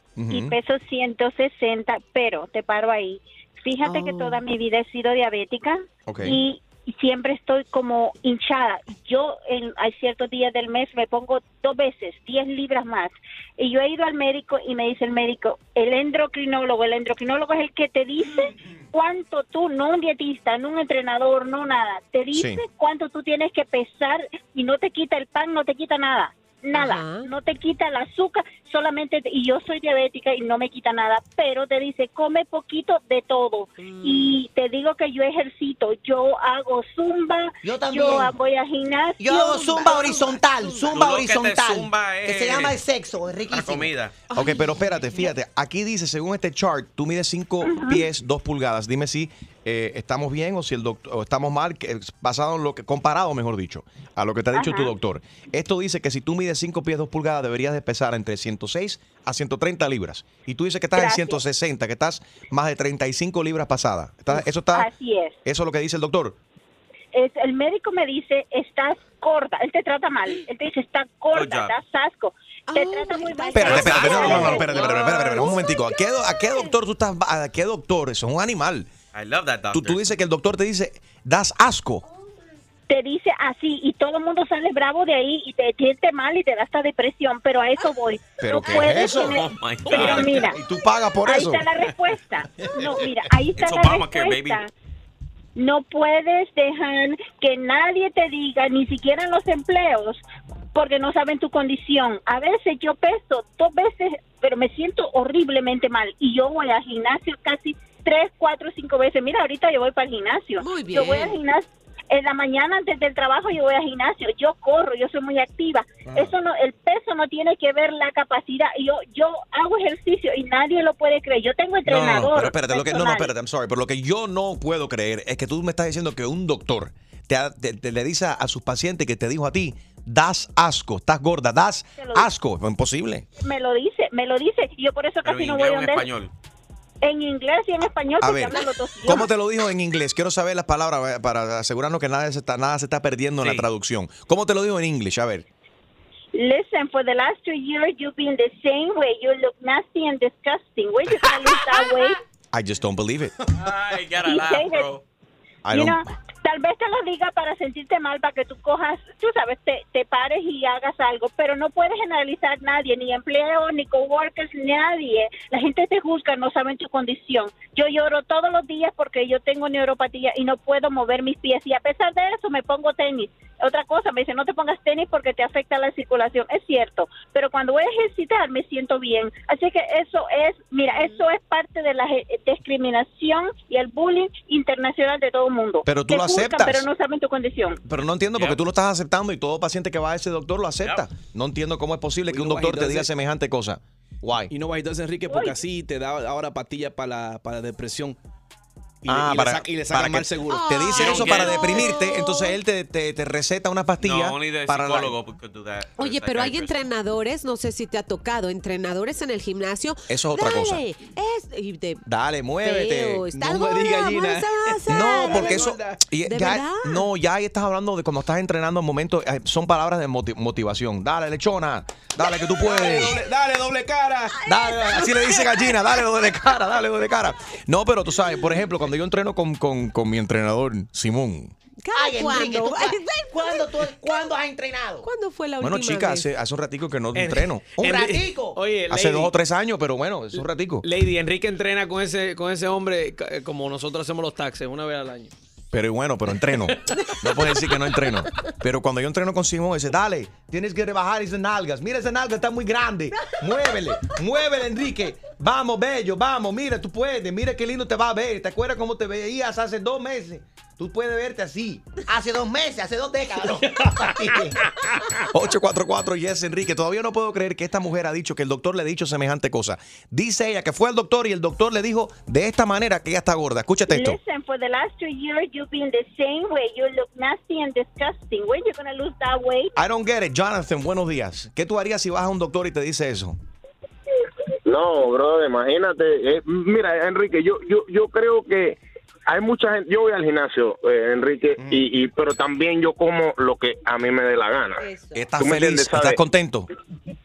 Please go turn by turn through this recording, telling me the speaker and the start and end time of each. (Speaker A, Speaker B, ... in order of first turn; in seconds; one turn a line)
Speaker A: 0.2-0.6
Speaker B: 0.3-40.2
Speaker C: 3.9-4.4
Speaker A: 6.1-6.4
Speaker A: 22.3-22.6
Speaker C: 26.7-27.3
Speaker C: 33.8-34.4
Speaker D: 37.6-38.3
Speaker D: 39.2-43.9
Speaker C: 39.8-40.9
Speaker E: 40.9-42.8
Speaker E: 43.5-44.2
Speaker A: 44.3-64.9
Speaker C: 44.4-45.2
Speaker B: 47.6-48.0
Speaker B: 54.5-54.9
Speaker B: 61.0-61.4
Speaker B: 64.7-65.4
Speaker A: 65.4-66.4
Speaker B: 67.1-75.1
Speaker E: 71.3-71.7
Speaker C: 72.7-75.6
Speaker A: 73.5-78.9
Speaker E: 79.1-80.1
Speaker A: 79.7-82.0
Speaker B: 82.9-90.6
Speaker A: 88.4-91.7
Speaker E: 89.4-90.4
Speaker B: 91.2-94.7
Speaker E: 93.6-94.6
Speaker B: 95.6-100.2
Speaker B: 100.7-123.3
Speaker C: 110.6-111.4
Speaker A: 121.8-133.3
Speaker B: 132.0-132.3
Speaker B: 133.4-136.1
Speaker E: 135.2-136.3
Speaker B: 137.0-139.3
Speaker A: 138.2-145.4
Speaker E: 143.4-143.7
Speaker B: 146.3-152.2
Speaker A: 152.5-153.3
Speaker E: 153.5-155.0
Speaker B: 154.3-154.9
Speaker A: 155.7-156.2
Speaker B: 155.7-187.8
Speaker A: 185.8-186.9
Speaker A: 187.8-194.5
Speaker E: 188.3-188.6
Speaker F: 192.3-193.1
Speaker F: 194.5-198.2
Speaker B: 195.3-195.6
Speaker F: 199.0-200.8
Speaker A: 199.1-205.2
Speaker C: 200.5-202.6
Speaker E: 200.9-201.8
Speaker E: 204.0-206.8
Speaker C: 206.0-212.0
Speaker A: 210.1-210.8
Speaker A: 212.1-213.3
Speaker C: 212.6-215.7
Speaker F: 213.3-216.0
Speaker A: 214.9-223.2
Speaker C: 216.2-217.1
Speaker F: 222.6-224.4
Speaker A: 224.5-231.5
Speaker C: 224.5-225.7
Speaker C: 231.8-233.7
Speaker D: 231.9-235.1
Speaker C: 235.0-236.3
Speaker A: 235.6-237.9
Speaker G: 237.2-239.3
Speaker D: 237.8-238.6
Speaker A: 238.9-240.9
Speaker G: 240.3-245.3
Speaker A: 245.7-261.9
Speaker D: 262.1-264.6
Speaker A: 265.3-274.2
Speaker B: 273.9-279.7
Speaker A: 279.8-283.4
Speaker H: 284.7-294.9
Speaker C: 294.8-295.2
Speaker A: 295.1-296.7
Speaker H: 295.4-296.2